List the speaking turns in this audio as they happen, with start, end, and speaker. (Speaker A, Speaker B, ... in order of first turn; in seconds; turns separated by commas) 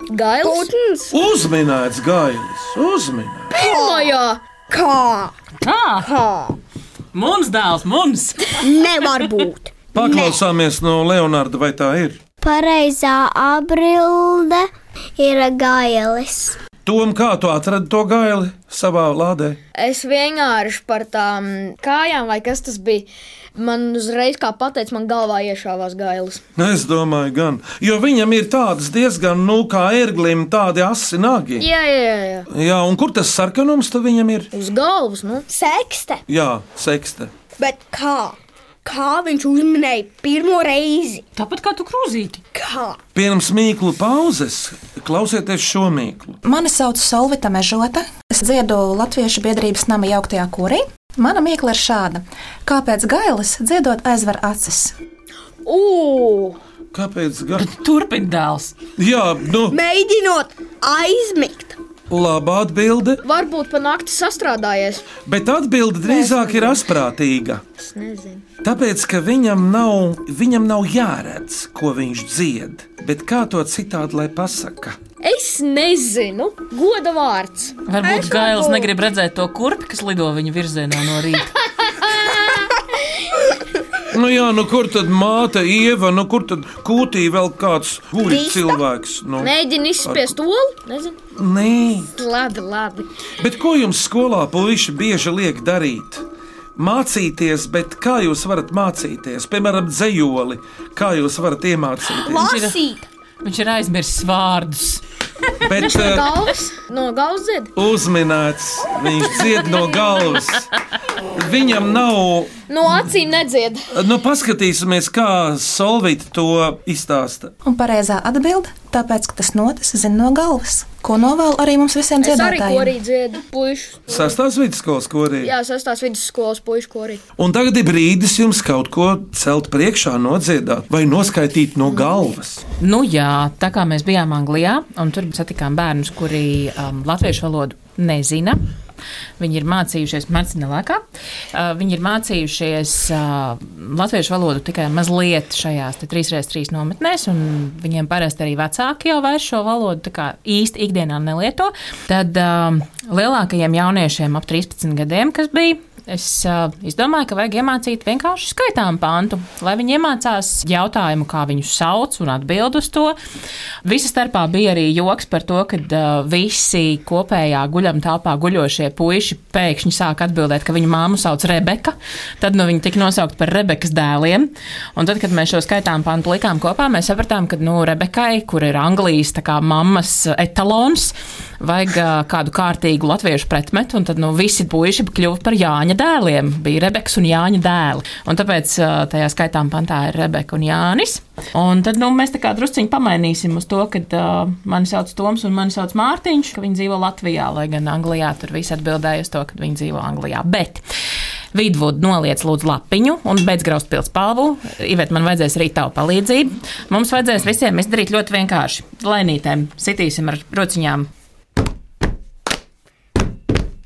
Speaker A: 0.1-0.7, Speaker B: 0.4-1.2, Speaker C: 1.1-3.5, Speaker B: 3.5-4.1, Speaker A: 3.5-4.4, Speaker B: 4.7-5.3, Speaker D: 5.6-6.1, Speaker B: 6.0-6.6, Speaker D: 7.1-8.6, Speaker B: 8.6-10.4, Speaker C: 9.9-12.2, Speaker E: 12.4-16.6, Speaker C: 16.8-19.6, Speaker A: 19.8-26.4, Speaker C: 26.6-31.7, Speaker A: 31.6-32.5, Speaker C: 32.5-34.5, Speaker A: 34.5-35.4, Speaker B: 35.5-36.2, Speaker C: 36.3-37.3, Speaker B: 37.6-41.2, Speaker D: 41.4-42.4, Speaker B: 42.5-43.0, Speaker C: 43.1-46.4, Speaker F: 46.4-54.9, Speaker A: 55.6-56.6, Speaker C: 56.9-57.7, Speaker D: 57.6-58.7, Speaker C: 59.0-59.8, Speaker B: 59.7-61.8, Speaker C: 62.1-63.2, Speaker A: 63.2-65.1, Speaker C: 65.2-67.6, Speaker A: 66.0-66.8, Speaker A: 67.8-68.4, Speaker C: 68.6-75.0, Speaker A: 75.2-77.7, Speaker D: 77.9-81.5, Speaker B: 78.0-78.9, Speaker A: 82.0-82.3, Speaker C: 84.1-90.3, Speaker B: 88.2-88.8, Speaker A: 89.4-91.2, Speaker C: 91.3-92.1, Speaker A: 92.1-93.1, Speaker C: 93.4-96.2, Speaker C: 96.8-102.5, Speaker B: 102.2-103.0, Speaker D: 102.3-102.8, Speaker D: 103.4-105.0, Speaker C: 105.6-106.3, Speaker A: 105.8-107.7, Speaker C: 107.8-110.7, Speaker C: 111.3-112.5, Speaker A: 112.7-113.9, Speaker C: 113.9-117.5, Speaker F: 117.6-123.0, Speaker A: 122.2-124.3, Speaker C: 124.1-125.5, Speaker A: 125.4-127.2, Speaker C: 127.4-132.6, Speaker D: 132.8-138.6, Speaker D: 139.4-141.0, Speaker D: 141.5-163.2, Speaker D: 163.8-200.8, Speaker D: 201.5-211.1